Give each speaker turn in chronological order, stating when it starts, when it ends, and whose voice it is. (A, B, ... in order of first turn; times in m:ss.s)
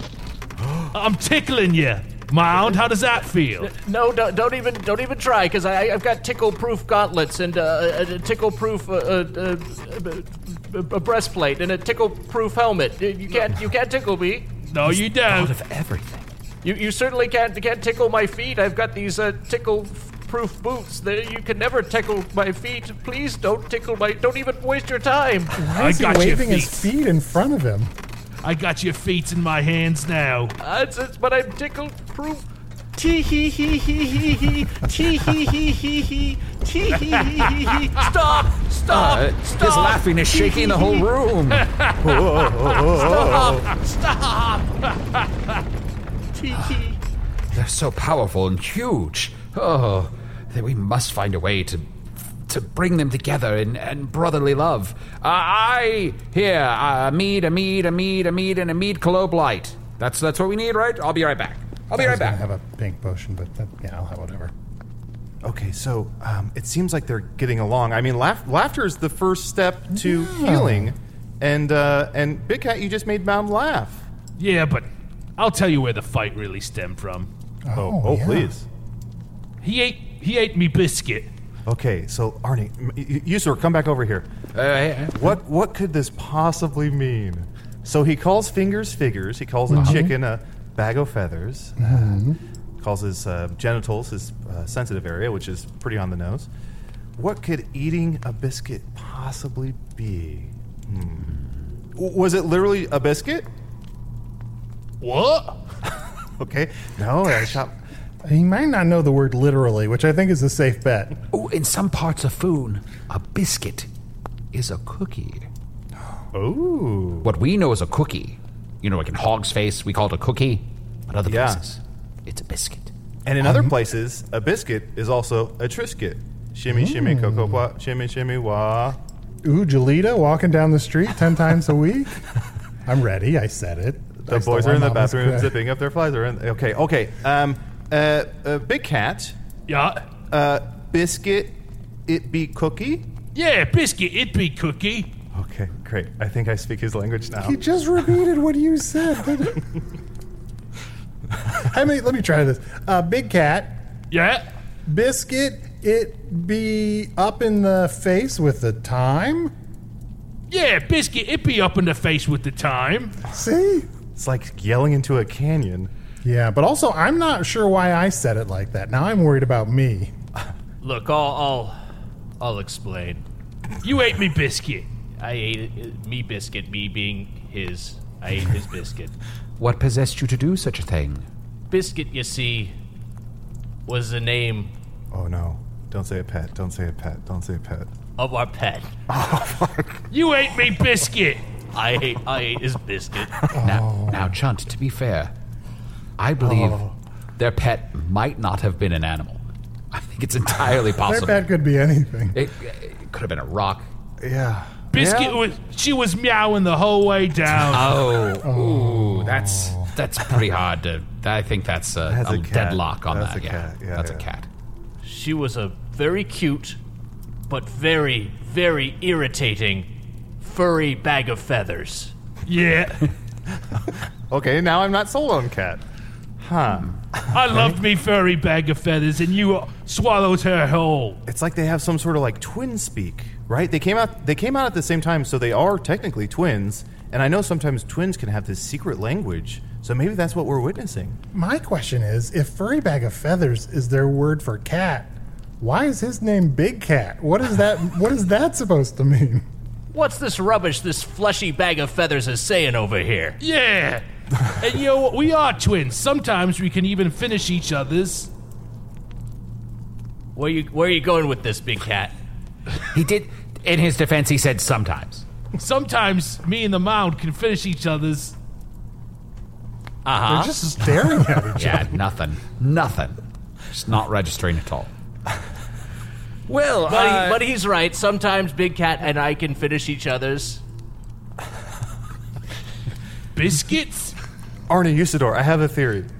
0:00.9-0:03.7 A
0:03.6-0:14.5 B
0:14.7-0:15.5 A
0:14.8-0:16.2 C
0:16.6-0:25.6 B
0:25.6-0:27.9 D
0:25.8-0:26.9 A
0:28.4-0:30.5 A
0:30.6-0:32.4 B
0:33.0-0:41.1 B
0:37.1-0:38.0 A
0:38.9-0:41.6 C
0:41.5-0:43.5 A
0:42.0-0:43.7 E
0:42.9-0:44.7 B
0:46.3-0:47.0 B
0:47.5-0:51.9 C
0:52.5-1:02.4 C
1:01.9-1:04.5 D
1:05.4-1:14.0 E
1:09.9-1:10.9 D
1:14.4-1:17.3 A
1:17.6-1:18.5 D
1:17.7-1:18.6 E
1:19.6-1:21.3 A
1:21.6-1:24.3 E
1:24.5-1:25.2 C
1:25.2-1:32.2 E
1:29.7-1:30.1 D
1:31.8-1:32.4 D
1:32.8-1:36.5 E
1:37.2-1:41.3 E
1:41.9-1:43.5 E
1:45.0-1:45.6 A
1:46.4-1:47.7 E
1:48.2-1:51.1 D
1:51.3-1:53.9 C
1:54.5-1:55.5 C
1:56.3-1:57.3 E
1:57.2-2:02.9 C
2:01.3-2:01.6 E
2:03.2-2:09.0 E
2:03.4-2:03.8 D
2:06.7-2:07.7 D
2:09.4-2:12.2 D
2:12.8-2:15.6 D
2:14.2-2:19.4 E
2:19.7-2:20.0 A
2:20.3-2:23.1 E
2:23.3-2:25.1 A
2:25.3-2:27.6 E
2:27.4-2:29.6 D
2:31.5-2:33.8 D
2:34.1-2:34.4 A
2:34.8-2:39.5 D
2:40.5-2:43.2 A
2:43.3-2:43.9 D
2:44.1-2:45.9 E
2:46.2-2:50.1 D
2:50.8-2:51.8 B
2:52.4-2:53.2 B
2:53.8-2:54.9 A
2:55.2-2:59.1 B
2:59.6-3:01.2 C
3:01.7-3:02.7 B
3:03.8-3:04.7 B
3:05.1-3:07.9 E
3:08.2-3:08.9 B
3:09.1-3:10.0 E
3:10.1-3:11.4 A
3:11.7-3:13.3 B
3:13.5-3:14.4 D
3:13.6-3:15.3 C
3:16.2-3:16.8 C
3:16.4-3:16.8 D
3:17.4-3:21.5 C
3:21.0-3:22.4 D
3:22.3-3:23.9 C
3:24.2-3:25.4 E
3:24.9-3:28.0 A
3:27.7-3:34.5 C
3:28.4-3:29.9 D
3:32.1-3:34.2 E
3:35.0-3:36.8 B
3:37.5-3:39.9 B
3:40.4-3:42.1 B
3:42.5-3:43.0 A
3:44.3-3:45.8 E
3:46.4-3:47.8 E
3:47.3-3:51.2 A
3:51.2-4:01.2 E
4:01.3-4:09.4 D
4:09.9-4:13.4 B
4:13.4-4:18.3 A
4:20.4-4:22.1 B
4:22.9-4:25.2 C
4:25.6-4:28.3 A
4:30.0-4:30.5 B
4:30.2-4:32.0 D
4:31.5-4:33.2 C
4:33.7-4:34.9 C
4:36.5-4:37.4 C
4:36.9-4:40.6 B
4:43.3-4:44.1 A
4:44.7-4:46.1 E